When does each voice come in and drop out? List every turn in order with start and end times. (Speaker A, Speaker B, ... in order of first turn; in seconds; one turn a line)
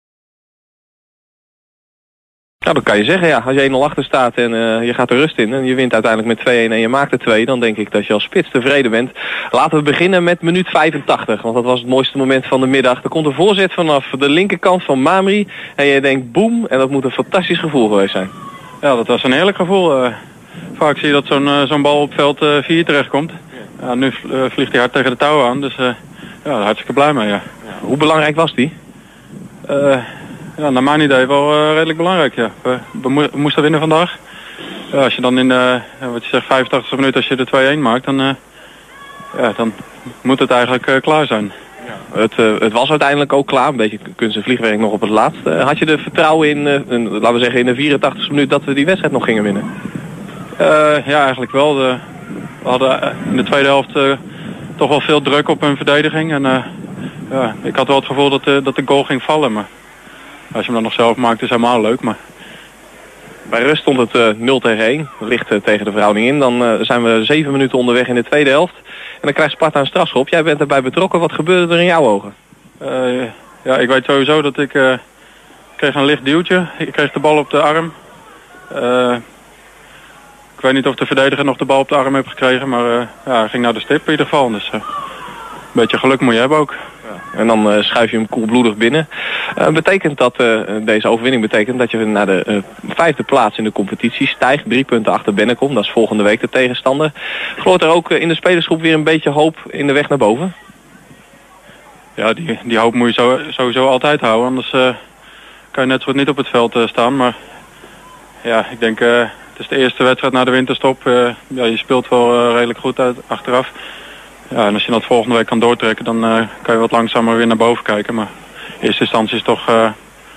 Speaker A: 2.6-18.3
Speaker B: 18.8-20.2
Speaker B: 20.8-27.4
Speaker A: 27.7-28.7
Speaker B: 29.7-30.1
Speaker B: 30.6-34.1
Speaker B: 34.9-38.4
Speaker B: 39.3-41.5
Speaker A: 42.1-49.7
Speaker B: 50.6-52.0
Speaker B: 52.6-54.2
Speaker B: 54.8-56.6
Speaker B: 57.3-59.7
Speaker B: 60.5-62.2
Speaker A: 63.5-72.3
Speaker B: 72.8-75.0
Speaker B: 75.8-77.9
Speaker B: 78.7-79.2
Speaker B: 80.6-84.8
Speaker B: 85.7-86.8
Speaker A: 87.3-100.5
Speaker B: 102.2-105.0
Speaker B: 105.7-107.4
Speaker B: 108.4-113.7
Speaker B: 114.5-118.3
Speaker B: 118.8-120.0